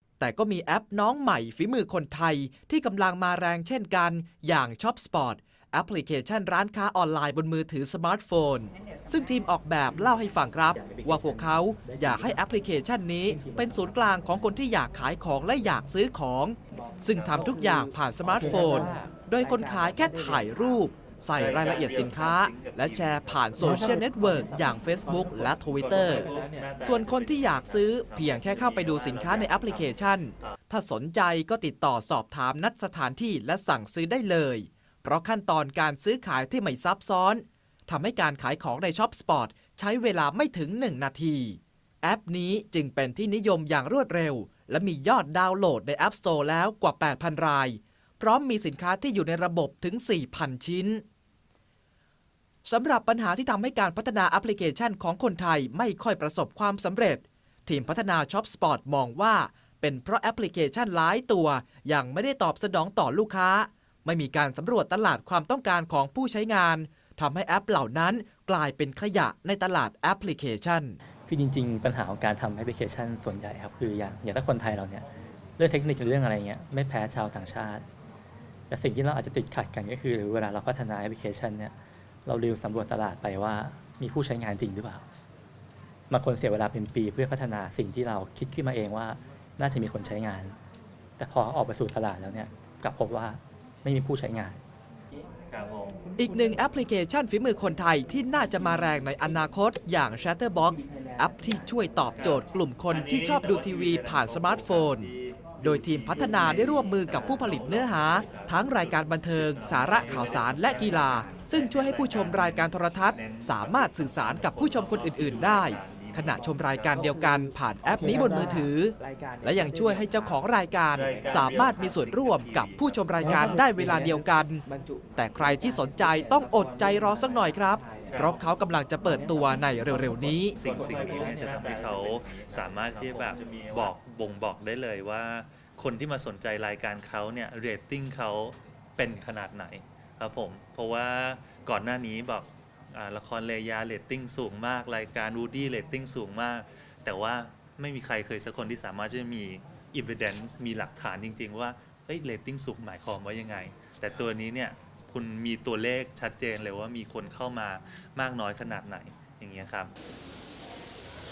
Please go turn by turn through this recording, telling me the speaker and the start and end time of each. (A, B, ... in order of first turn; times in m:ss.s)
0:00.2-0:26.3 A
0:26.8-0:51.0 A
0:52.6-1:11.0 A
1:11.3-1:15.0 B
1:15.6-1:17.8 B
1:18.7-1:25.1 B
1:26.1-1:30.6 B
1:31.2-1:34.6 B
1:35.5-1:36.0 C
1:36.2-1:45.1 A
1:45.6-2:04.6 A
1:49.9-1:50.7 C
2:05.2-2:10.6 A
2:10.6-2:39.9 C